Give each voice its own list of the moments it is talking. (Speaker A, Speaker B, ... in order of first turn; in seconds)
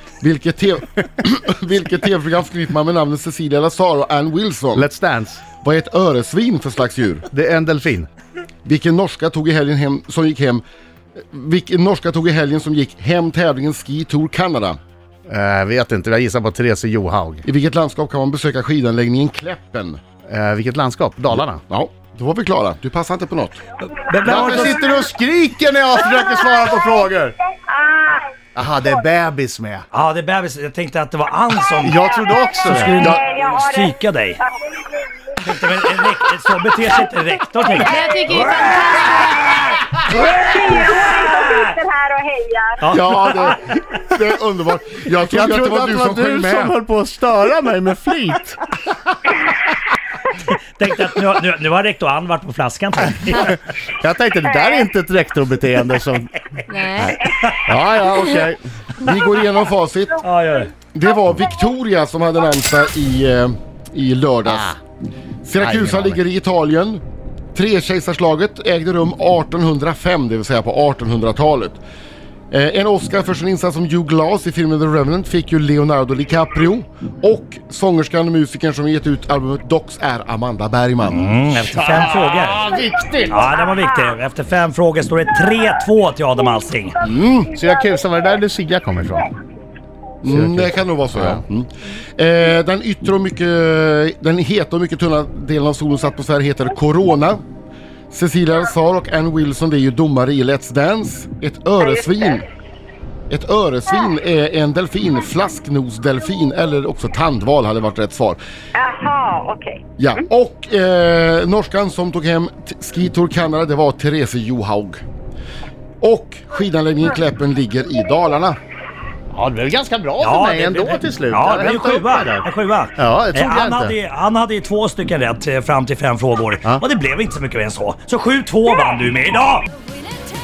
Speaker A: 0.2-4.9, 5.6-7.3, 8.6-10.6, 11.2-14.8, 17.4-20.0, 21.3-23.6, 24.2-24.7, 42.9-46.8, 59.0-60.2, 60.9-64.7, 65.4-67.0, 67.5-71.8, 72.5-81.2, 87.0-87.5, 90.2-97.4, 98.1-102.4, 103.3-108.4, 110.0-115.0, 116.0-118.6
Speaker B: 4.7-5.4, 7.3-8.1, 15.3-17.4, 20.3-21.6, 24.2-27.4, 28.5-29.9, 31.8-33.0, 45.3-48.6, 53.4-56.3, 57.6-58.6, 64.5-64.8, 65.6-66.2, 81.6-83.5, 87.5-89.3, 90.2-91.4, 119.3-124.0
Speaker C: 23.8-24.8, 29.9-32.0, 32.6-34.4, 35.4-41.7, 42.8-43.5, 50.3-53.5, 57.0-57.5, 60.2-60.7, 81.1-82.6, 83.3-87.0, 120.2-129.6
Speaker D: 27.7-28.3, 32.1-32.4, 32.9-34.0, 37.7-38.0, 40.1-42.9, 54.5-54.9, 83.7-84.1, 101.8-102.4, 108.7-109.8
Speaker E: 37.7-39.4, 56.7-57.2